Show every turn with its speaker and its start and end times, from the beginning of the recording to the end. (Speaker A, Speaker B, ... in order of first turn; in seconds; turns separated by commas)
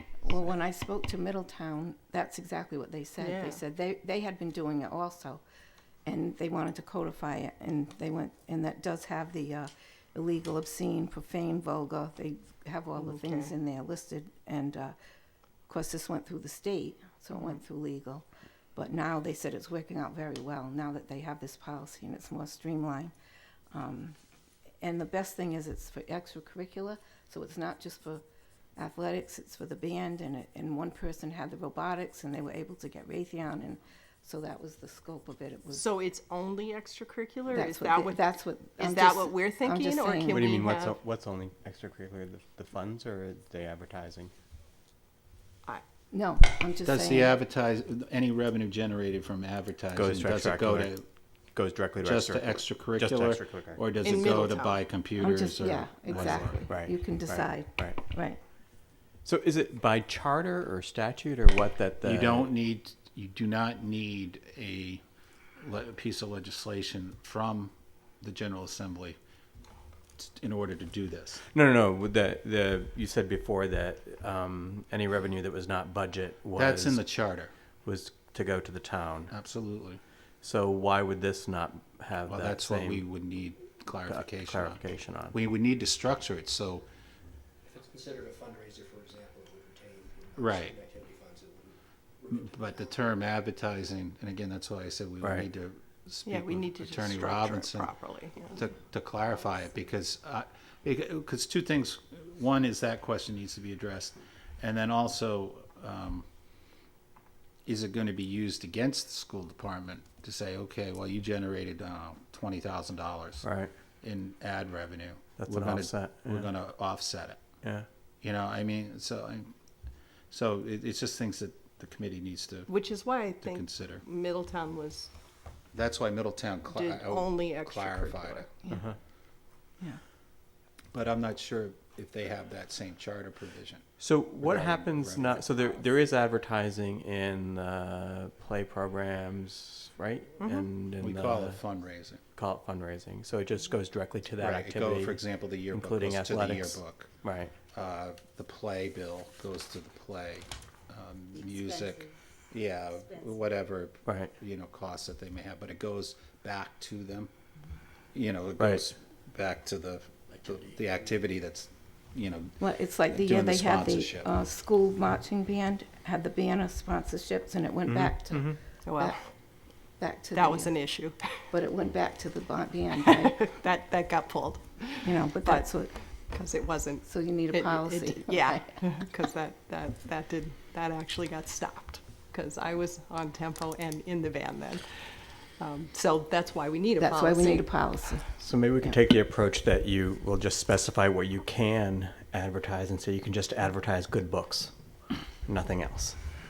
Speaker A: 0.2-5.4, Speaker B: 3.2-3.6, Speaker A: 6.0-14.9, Speaker B: 13.0-13.5, Speaker A: 15.7-23.1, Speaker B: 17.3-17.6, Speaker A: 23.7-24.1, Speaker A: 24.8-28.2, Speaker A: 28.8-35.8, Speaker B: 35.7-38.2, Speaker A: 37.5-40.4, Speaker B: 38.8-41.0, Speaker C: 40.3-44.3, Speaker A: 46.1-47.4, Speaker D: 46.8-51.0, Speaker C: 49.9-50.9, Speaker C: 51.5-54.4, Speaker D: 52.0-56.6, Speaker B: 54.0-54.8, Speaker A: 55.2-58.4, Speaker C: 56.1-58.0, Speaker C: 59.2-62.5, Speaker D: 62.0-65.0, Speaker D: 65.6-69.2, Speaker D: 70.2-71.4, Speaker C: 71.5-77.0, Speaker D: 76.6-77.5, Speaker C: 77.8-79.3, Speaker D: 79.3-80.0, Speaker C: 80.4-83.0, Speaker D: 82.2-86.8, Speaker C: 84.1-85.3, Speaker E: 87.7-92.9, Speaker D: 90.3-90.8, Speaker D: 92.3-97.9, Speaker C: 95.2-95.5, Speaker B: 96.2-98.6, Speaker D: 98.5-106.2, Speaker D: 107.6-113.5, Speaker C: 113.4-113.7, Speaker D: 114.0-117.4, Speaker C: 115.4-116.5, Speaker D: 118.2-119.5, Speaker D: 120.3-122.7, Speaker B: 122.7-125.1, Speaker D: 123.4-124.0, Speaker D: 125.7-128.4, Speaker B: 126.7-128.5, Speaker A: 128.6-128.9, Speaker C: 128.7-128.9, Speaker D: 130.9-133.8, Speaker C: 134.0-141.6, Speaker D: 134.4-135.7, Speaker B: 140.4-140.7, Speaker D: 141.0-142.2, Speaker C: 142.3-147.5, Speaker D: 144.4-147.1, Speaker D: 147.7-157.3, Speaker C: 154.1-154.3, Speaker D: 158.1-162.6, Speaker C: 158.6-158.8, Speaker A: 162.6-169.2, Speaker D: 163.1-164.3, Speaker C: 167.8-168.6, Speaker B: 168.8-169.2, Speaker A: 170.0-170.7, Speaker B: 170.3-171.2, Speaker A: 171.5-173.4, Speaker B: 173.0-175.7, Speaker A: 175.0-175.9, Speaker B: 176.3-184.8, Speaker A: 177.0-178.8, Speaker B: 185.6-187.7, Speaker A: 187.0-188.3, Speaker C: 188.4-194.7, Speaker C: 195.4-196.2